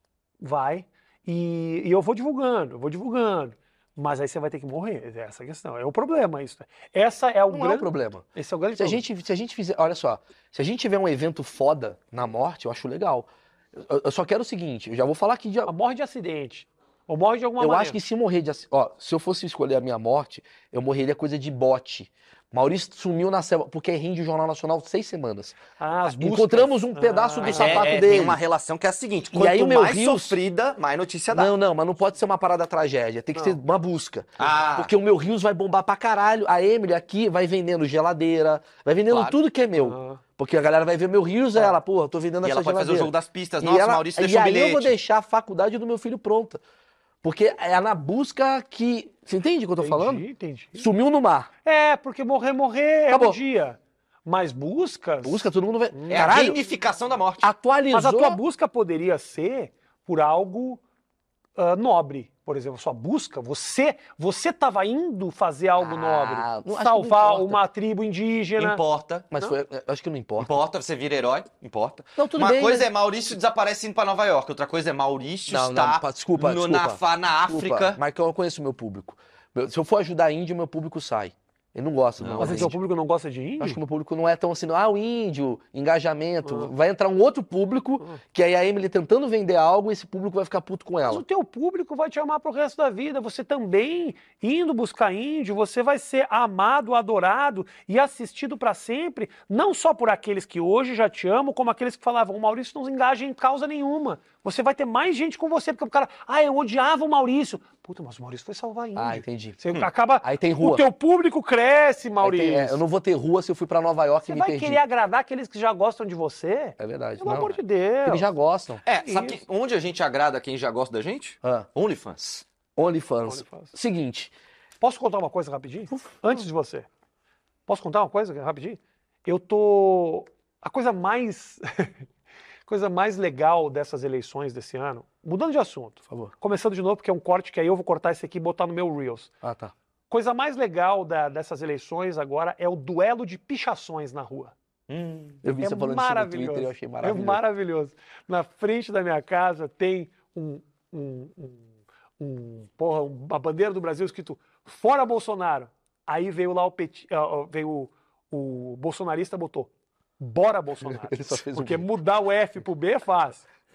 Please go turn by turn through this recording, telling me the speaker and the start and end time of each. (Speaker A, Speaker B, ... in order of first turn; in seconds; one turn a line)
Speaker A: 0.4-9.0
Speaker B: 7.5-15.7
Speaker A: 15.7-18.0
Speaker B: 17.6-28.4
Speaker A: 25.8-28.1
Speaker C: 27.4-31.5
Speaker B: 29.3-30.4
Speaker B: 31.3-46.6
Speaker A: 33.3-33.6
Speaker C: 34.4-34.9
Speaker C: 39.1-39.4
Speaker A: 39.8-40.2
Speaker C: 42.4-44.9
Speaker B: 47.2-50.2
Speaker A: 49.8-50.9
Speaker B: 50.8-51.5
Speaker A: 51.6-56.5
Speaker B: 53.1-53.4
Speaker B: 55.2-56.6
Speaker C: 56.1-57.5
Speaker B: 57.4-58.4
Speaker A: 57.9-60.8
Speaker A: 61.5-68.8
Speaker B: 65.8-67.6
Speaker C: 68.6-69.3
Speaker B: 69.3-70.5
Speaker C: 70.4-78.0
Speaker B: 72.2-72.9
Speaker B: 75.5-82.8
Speaker C: 82.2-82.7
Speaker A: 82.4-83.8
Speaker B: 83.6-91.2
Speaker A: 86.4-86.7
Speaker A: 91.0-112.8
Speaker B: 109.0-109.6
Speaker B: 110.2-110.8
Speaker B: 112.2-114.8
Speaker A: 114.2-118.3
Speaker B: 116.8-118.8
Speaker C: 118.8-122.4
Speaker A: 119.0-119.4
Speaker B: 122.8-124.3
Speaker A: 123.3-123.7
Speaker A: 124.8-126.9
Speaker A: 127.7-132.1
Speaker A: 132.7-139.3
Speaker B: 139.4-139.7
Speaker A: 140.1-144.5
Speaker C: 144.9-145.4
Speaker B: 145.4-147.4
Speaker A: 145.6-163.5
Speaker B: 160.9-161.8